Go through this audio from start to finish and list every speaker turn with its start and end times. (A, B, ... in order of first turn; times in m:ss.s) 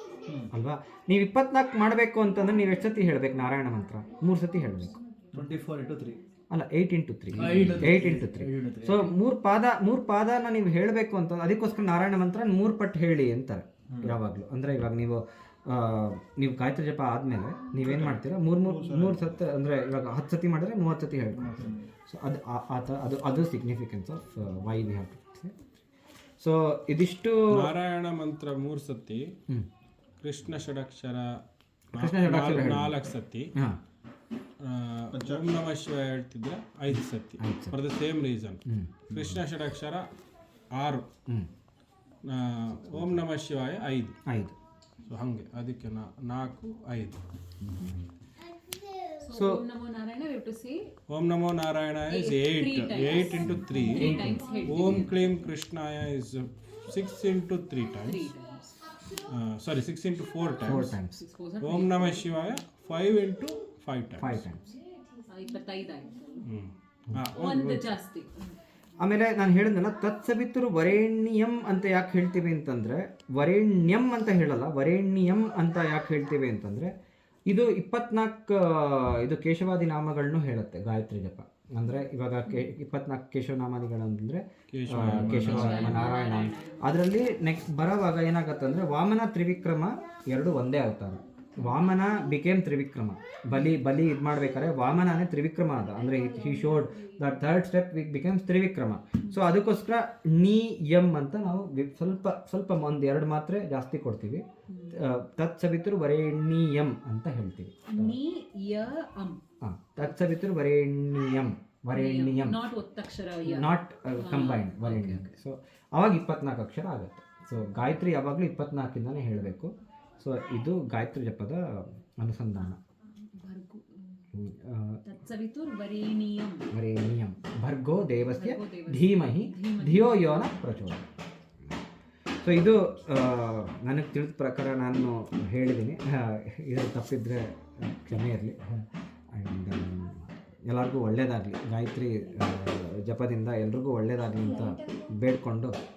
0:00.5-0:05.0 A
0:05.3-0:06.2 B
0:06.5-0:25.6 A
0:07.3-0:09.2 B
0:17.9-0:19.3 B
0:21.4-0:21.8 B
0:26.4-0:27.7 A
0:27.5-0:29.4 C
0:30.2-0:31.4 C
0:31.9-0:33.5 C
0:32.0-0:33.0 A
0:33.5-0:33.8 A
0:34.6-0:40.0 C
0:35.1-0:35.4 B
0:37.4-0:37.8 A
0:38.6-0:39.4 A
0:40.7-0:41.0 C
0:42.2-0:44.2 C
0:42.9-0:43.2 A
0:44.2-0:44.5 A
0:45.1-0:47.2 C
0:49.2-0:50.9 D
0:49.3-0:49.6 A
0:51.1-0:58.3 C
0:52.1-0:55.2 D
0:53.8-0:54.4 A
0:58.0-0:58.9 D
0:59.3-1:01.0 C
1:00.6-1:01.2 A
1:01.1-1:02.6 D
1:01.6-1:04.4 C
1:04.2-1:04.7 A
1:05.3-1:06.3 D
1:06.4-1:07.9 C
1:07.3-1:08.4 D
1:09.0-1:16.9 A
1:17.4-1:48.2 A
1:24.7-1:26.1 C
1:25.3-1:26.9 D
1:44.7-1:45.0 D
1:47.9-1:49.4 D
1:49.6-1:52.6 A
1:51.9-1:55.3 D
1:53.4-2:02.8 A
2:03.3-2:03.9 D
2:04.3-2:05.0 A
2:05.0-2:06.7 D
2:06.7-2:11.0 A
2:08.3-2:10.7 D
2:12.4-2:25.8 A